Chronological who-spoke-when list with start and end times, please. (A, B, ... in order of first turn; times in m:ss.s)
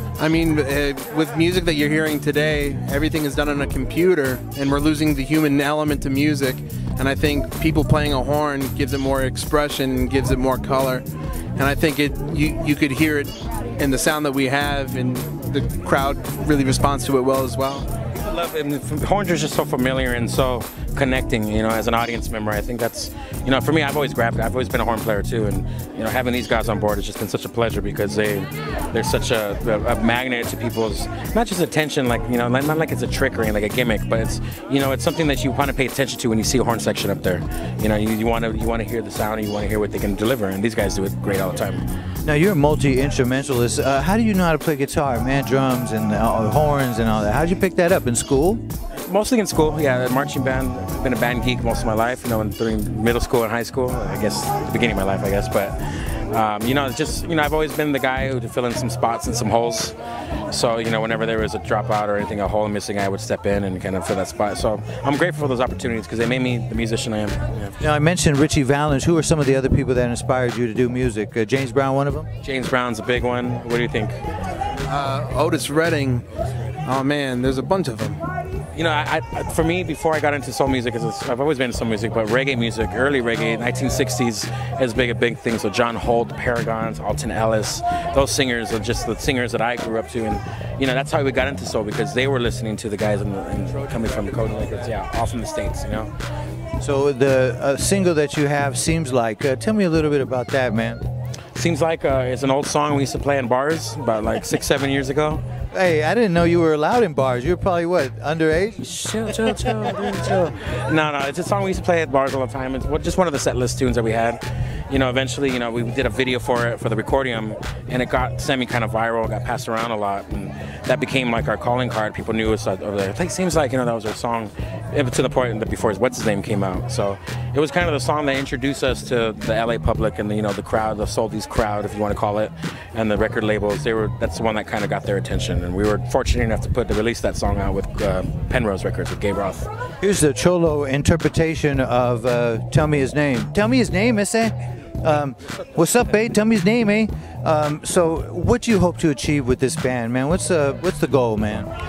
0:00.2-0:11.0 A
0:11.6-0:17.9 A
0:18.1-0:41.8 B
0:42.2-0:48.6 C
0:49.0-0:59.9 B
1:00.5-1:07.8 B
1:07.8-1:12.3 C
1:12.4-1:14.2 B
1:14.9-1:16.2 A
1:16.8-1:18.2 A
1:18.7-1:36.1 B
1:33.9-1:34.5 A
1:36.8-1:41.0 C
1:41.5-1:45.4 B
1:45.7-1:48.8 C
1:48.8-2:19.7 B
2:20.0-2:31.7 C